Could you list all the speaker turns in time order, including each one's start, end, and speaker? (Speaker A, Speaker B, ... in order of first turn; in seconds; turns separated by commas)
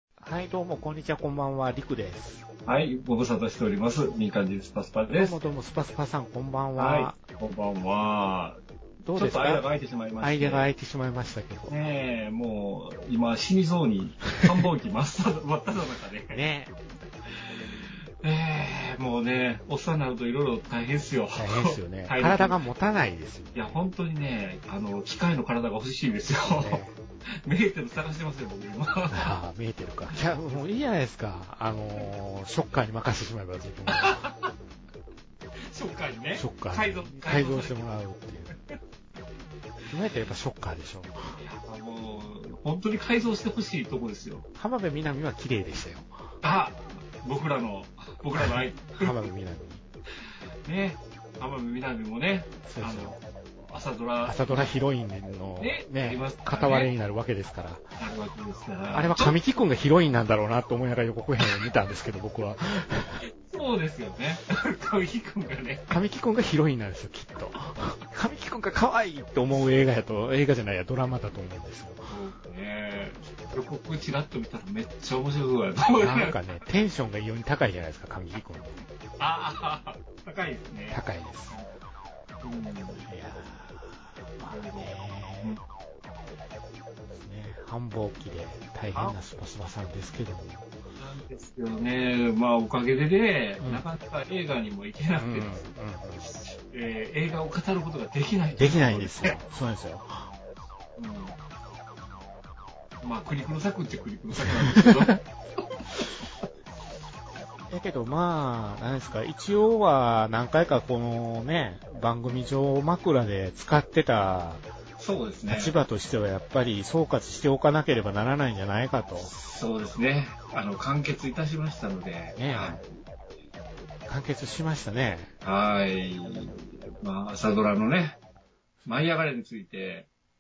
Speaker A: 0.2-2.5, Speaker B: 2.7-5.4, Speaker A: 5.1-7.2, Speaker B: 6.8-8.6, Speaker A: 9.0-9.7, Speaker B: 9.1-10.7, Speaker A: 10.2-11.7, Speaker B: 11.7-16.4, Speaker A: 16.3-16.7, Speaker B: 17.3-22.6, Speaker A: 21.3-23.8, Speaker B: 23.5-26.8, Speaker A: 26.4-26.9, Speaker B: 27.4-29.3, Speaker A: 29.1-34.2, Speaker B: 33.9-34.5, Speaker B: 35.7-37.7, Speaker A: 36.4-38.6, Speaker A: 39.9-41.4, Speaker B: 41.3-44.5, Speaker A: 44.5-46.1, Speaker B: 46.4-49.1, Speaker A: 49.0-49.8, Speaker B: 50.6-54.7, Speaker A: 52.7-53.2, Speaker A: 54.2-57.8, Speaker B: 55.6-56.9, Speaker B: 58.0-59.4, Speaker A: 58.9-63.2, Speaker B: 63.2-65.9, Speaker A: 65.9-72.1, Speaker B: 72.1-76.3, Speaker A: 76.0-78.8, Speaker B: 79.2-81.7, Speaker A: 80.9-81.5, Speaker B: 82.4-83.1, Speaker A: 83.1-85.6, Speaker B: 84.5-85.6, Speaker A: 87.1-90.7, Speaker B: 88.9-89.2, Speaker B: 91.0-95.7, Speaker A: 95.2-96.3, Speaker B: 96.3-99.4, Speaker A: 98.6-100.3, Speaker B: 101.0-101.4, Speaker B: 103.0-105.2, Speaker A: 104.3-105.2, Speaker A: 107.7-114.7, Speaker B: 115.0-115.8, Speaker A: 115.5-119.3, Speaker B: 119.2-122.9, Speaker A: 122.4-122.8, Speaker A: 124.1-125.3, Speaker B: 125.4-128.2, Speaker B: 128.9-130.1